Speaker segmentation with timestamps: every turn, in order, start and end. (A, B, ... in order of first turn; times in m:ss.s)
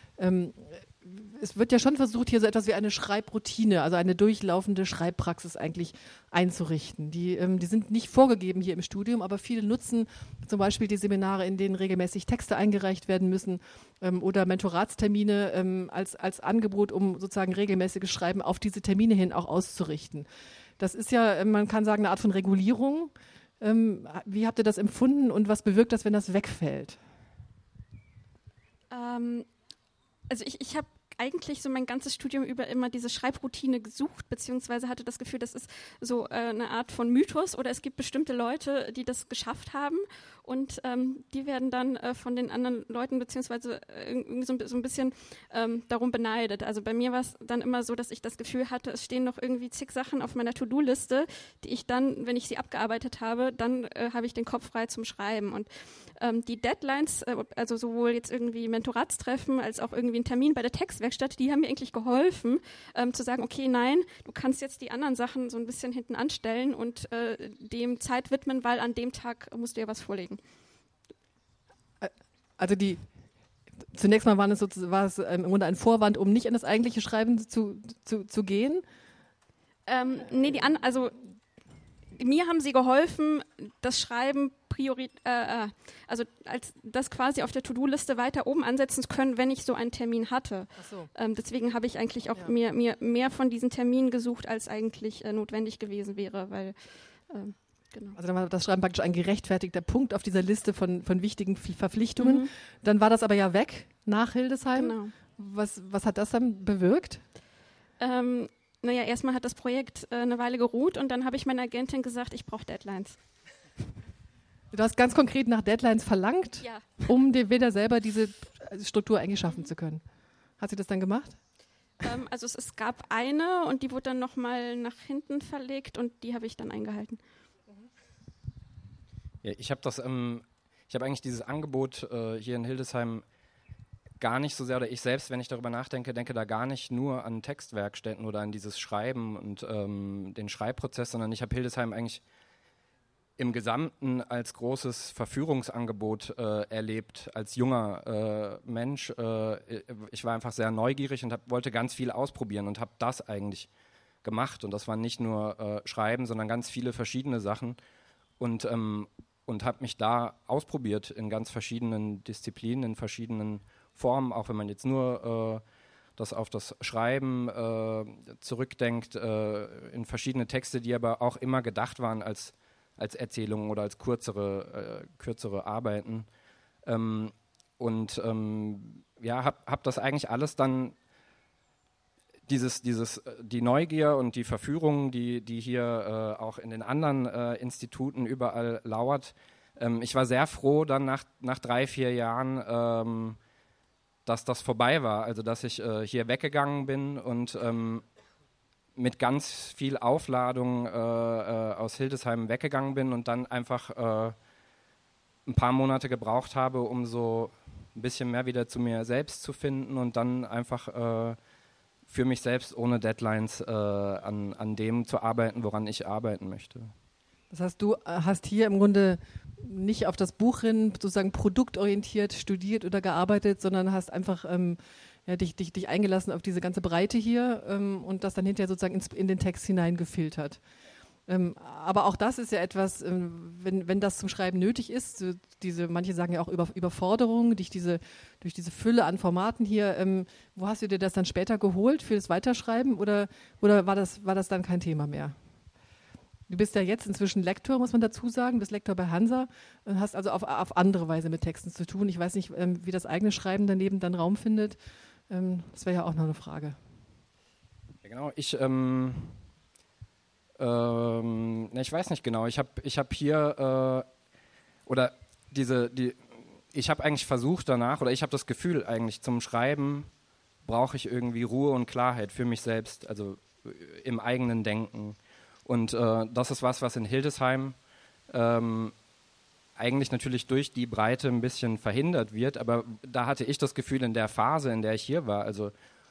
0:00.2-0:20.3 A
0:20.8-0:27.0 A
0:28.9-0:29.5 B
0:30.3-1:10.4 B
1:12.0-1:13.0 A
1:13.9-1:18.8 A
1:19.9-1:21.2 B
1:22.1-1:36.8 B
1:30.8-1:31.1 A
1:37.3-1:38.2 B
1:38.1-1:47.2 A
1:42.2-1:42.5 B
1:44.8-1:45.2 B
1:48.0-1:53.2 B
1:54.7-2:00.0 A
2:00.6-2:01.4 A
2:02.0-2:07.2 B
2:09.4-2:13.2 C
2:14.2-2:22.2 C
2:23.4-2:33.7 C
2:34.2-2:37.8 C
2:38.4-2:45.6 C
2:46.2-2:56.3 C
2:56.8-3:01.0 C
3:02.5-3:13.4 C
3:14.3-3:18.0 C
3:19.0-3:24.4 C
3:25.5-3:31.4 C
3:32.1-3:36.9 C
3:37.5-3:50.6 A
3:51.3-4:05.4 A
4:06.5-4:14.8 A
4:15.3-4:16.8 A
4:18.0-4:19.4 C
4:20.6-4:24.1 C
4:24.9-4:30.1 C
4:30.6-4:37.8 C
4:38.3-4:38.9 C
4:39.8-4:45.7 C